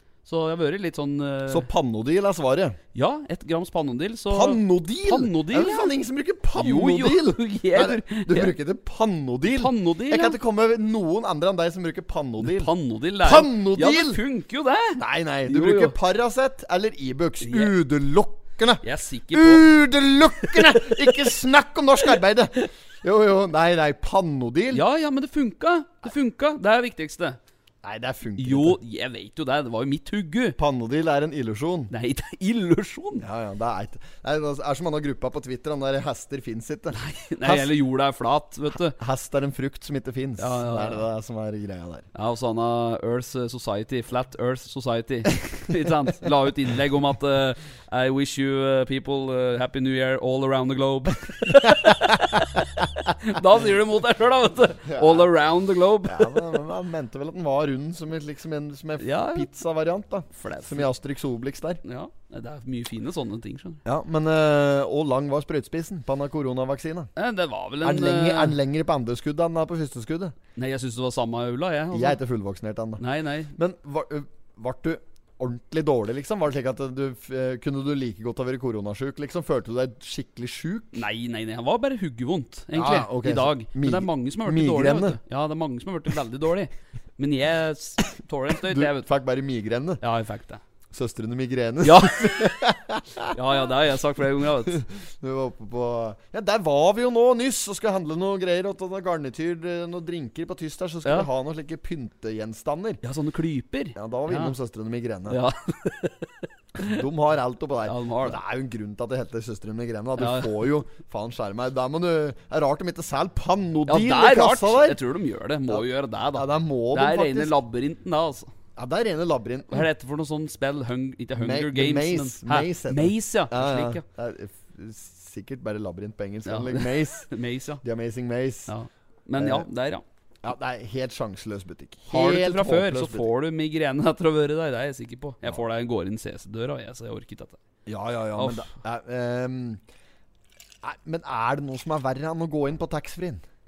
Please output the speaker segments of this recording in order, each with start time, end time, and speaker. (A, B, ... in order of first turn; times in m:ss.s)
0:00.2-0:01.7 A
0:01.5-0:02.8 B
0:02.9-0:05.9 A
0:04.3-0:14.2 B
0:06.5-0:08.5 A
0:09.4-0:10.4 A
0:12.4-0:15.9 A
0:15.0-0:24.8 B
0:17.4-0:17.7 A
0:18.8-0:19.7 A
0:20.4-0:20.8 A
0:24.7-0:27.4 A
0:27.8-0:28.8 B
0:28.4-0:30.6 A
0:30.6-0:31.9 B
0:31.9-0:33.2 A
0:33.2-0:37.7 B
0:36.9-0:39.0 A
0:38.7-0:42.1 B
0:40.4-0:41.0 A
0:42.1-0:56.5 A
0:51.7-0:52.1 B
0:54.8-0:55.3 B
0:56.0-1:01.8 B
0:59.0-0:59.5 A
1:00.3-1:00.9 A
1:01.8-1:03.8 A
1:03.8-1:07.1 B
1:07.2-1:08.6 A
1:07.8-1:10.3 B
1:10.6-1:12.2 A
1:11.9-1:13.0 B
1:13.0-1:13.6 A
1:13.5-1:21.0 B
1:20.9-1:29.1 A
1:22.7-1:25.2 B
1:28.6-1:30.0 B
1:30.0-1:30.6 A
1:30.9-1:33.4 B
1:31.8-1:32.5 A
1:33.3-1:34.8 A
1:34.7-1:43.0 B
1:43.0-1:44.5 A
1:44.0-1:45.4 B
1:45.3-1:47.0 A
1:46.8-1:55.0 B
1:47.8-1:48.4 A
1:50.2-1:50.6 A
1:53.9-1:58.5 A
1:55.7-1:57.6 B
1:58.8-1:59.9 B
1:59.7-2:04.0 A
2:01.4-2:07.3 B
2:06.4-2:07.8 A
2:07.8-2:08.7 B
2:08.7-2:10.0 A
2:09.4-2:09.6 B
2:10.4-2:13.3 B
2:12.1-2:17.6 A
2:17.8-2:19.8 B
2:18.4-2:18.7 A
2:20.8-2:23.4 B